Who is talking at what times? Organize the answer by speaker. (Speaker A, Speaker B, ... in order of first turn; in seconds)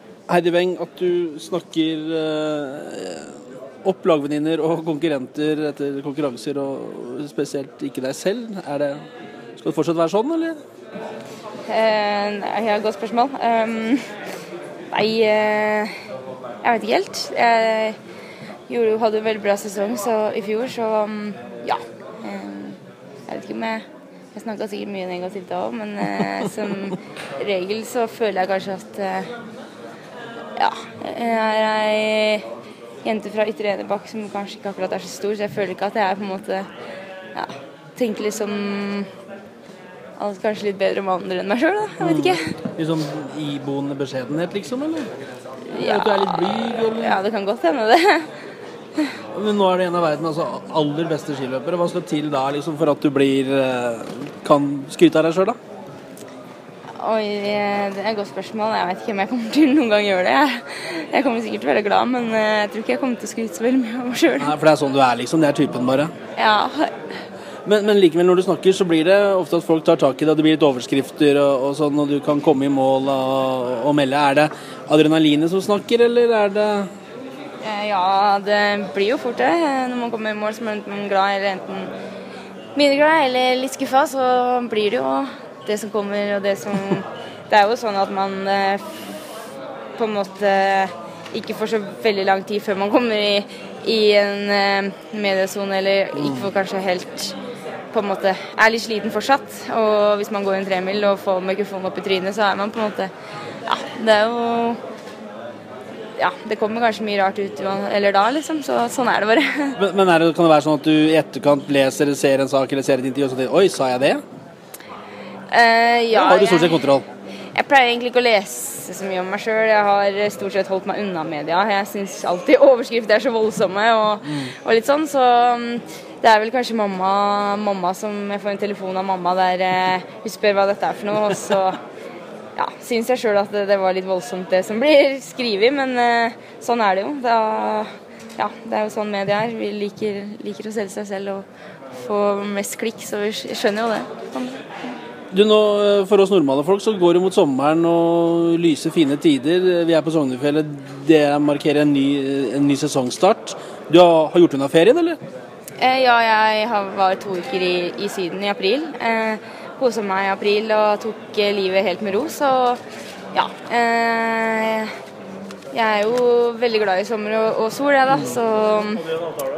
Speaker A: 0.3-9.0, 9.6-10.6, 42.0-45.1, 45.8-47.2, 49.3-55.6, 64.4-66.1, 67.7-76.9, 96.2-96.5, 109.8-114.2, 116.1-117.1, 145.3-155.2
Speaker B: 11.7-14.0, 14.9-15.9, 16.6-18.0, 18.7-22.8, 23.3-29.3, 30.6-32.4, 33.0-36.7, 37.4-39.1, 40.2-42.5, 45.7-48.3, 57.0-64.5, 66.4-66.9, 77.6-81.9, 82.8-88.8, 90.0-97.3, 97.9-103.1, 103.7-104.8, 106.2-109.7, 115.5-116.8, 117.5-131.8, 132.6-141.4, 142.0-144.7, 155.8-162.8, 163.3-164.9, 165.7-169.0